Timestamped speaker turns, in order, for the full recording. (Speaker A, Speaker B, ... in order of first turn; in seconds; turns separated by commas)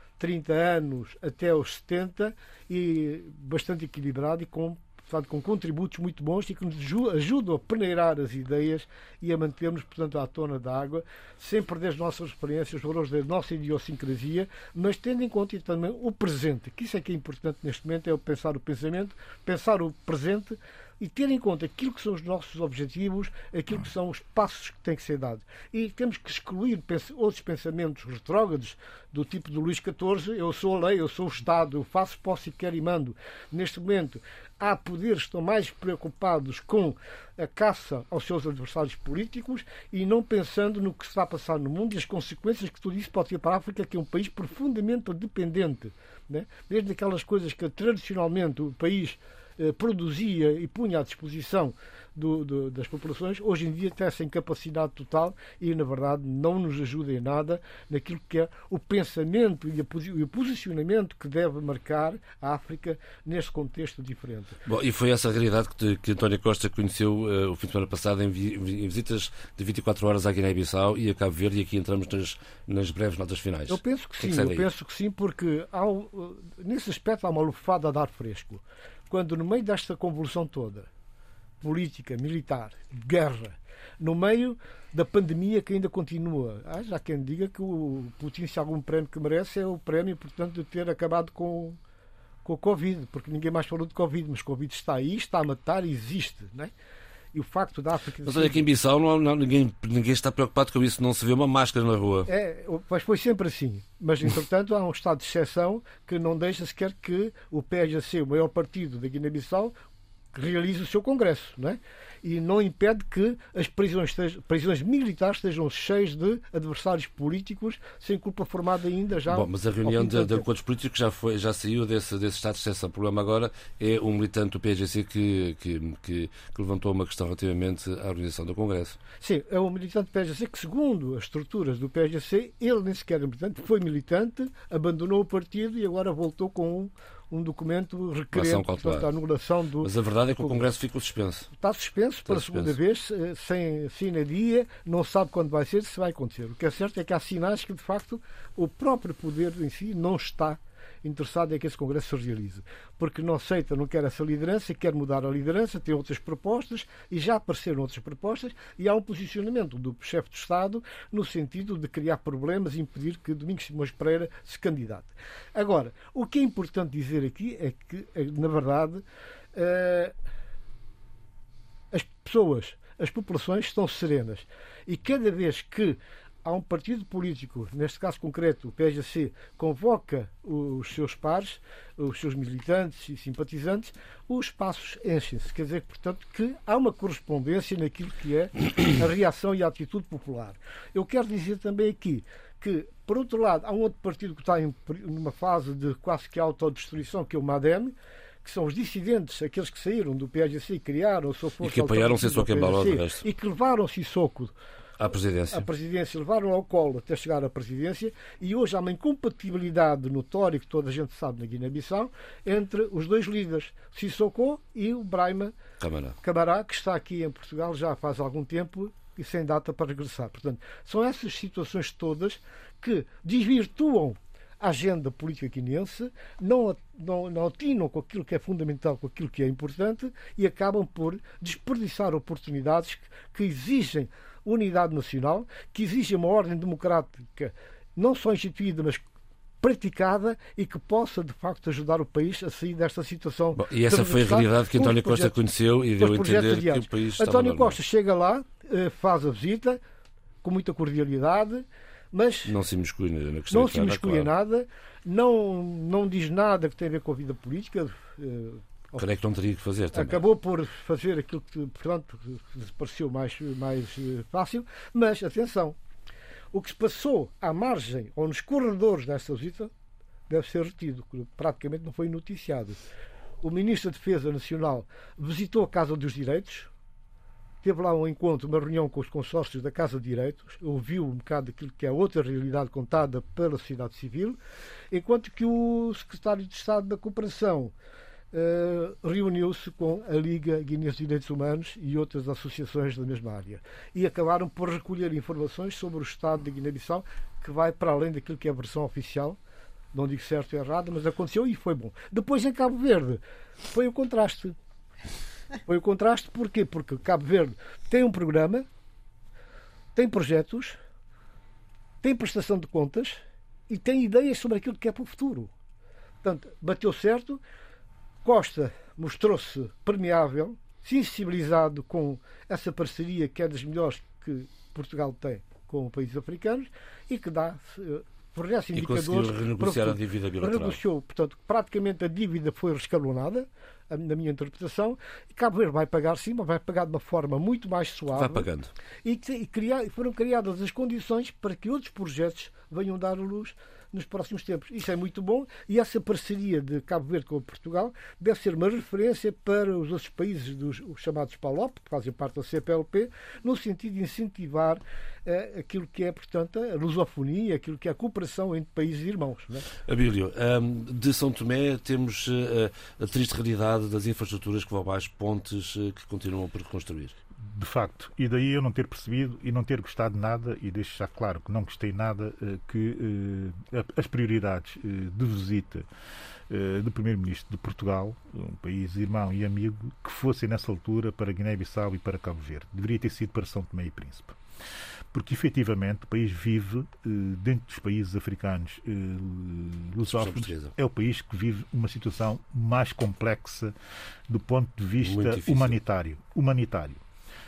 Speaker A: 0.2-64.6, Speaker B: 64.7-74.7, Speaker A: 73.7-80.9, Speaker A: 81.6-91.8, Speaker A: 92.4-96.7, Speaker A: 97.3-98.6, Speaker B: 98.2-102.3, Speaker A: 102.3-109.7, Speaker A: 110.3-120.5, Speaker B: 119.3-129.0, Speaker A: 129.2-140.6, Speaker B: 138.3-139.1, Speaker B: 139.8-141.5, Speaker A: 141.5-170.1, Speaker B: 142.3-142.8, Speaker A: 171.9-204.5, Speaker B: 201.6-203.2, Speaker B: 205.0-205.7, Speaker A: 205.5-215.5, Speaker B: 215.8-216.2, Speaker A: 216.2-239.0, Speaker A: 239.6-245.3, Speaker B: 243.6-247.8, Speaker A: 246.0-249.8, Speaker A: 250.4-252.5, Speaker B: 252.4-254.3, Speaker A: 253.5-259.0, Speaker B: 259.0-260.2, Speaker A: 259.9-265.8, Speaker A: 266.5-269.7, Speaker A: 270.3-272.8, Speaker A: 273.4-276.7, Speaker A: 277.6-284.4, Speaker A: 284.9-287.7, Speaker A: 288.3-299.4, Speaker A: 299.9-303.2, Speaker A: 303.7-304.6, Speaker A: 305.6-308.6, Speaker A: 309.9-310.8, Speaker A: 312.0-315.5, Speaker A: 316.2-317.4, Speaker A: 318.2-338.5, Speaker B: 328.7-330.8, Speaker B: 338.1-338.7, Speaker A: 339.0-359.6, Speaker B: 359.9-367.2, Speaker C: 367.5-375.9, Speaker C: 376.5-384.4, Speaker C: 385.1-393.7, Speaker B: 390.1-390.7, Speaker C: 394.3-397.0, Speaker B: 395.0-395.8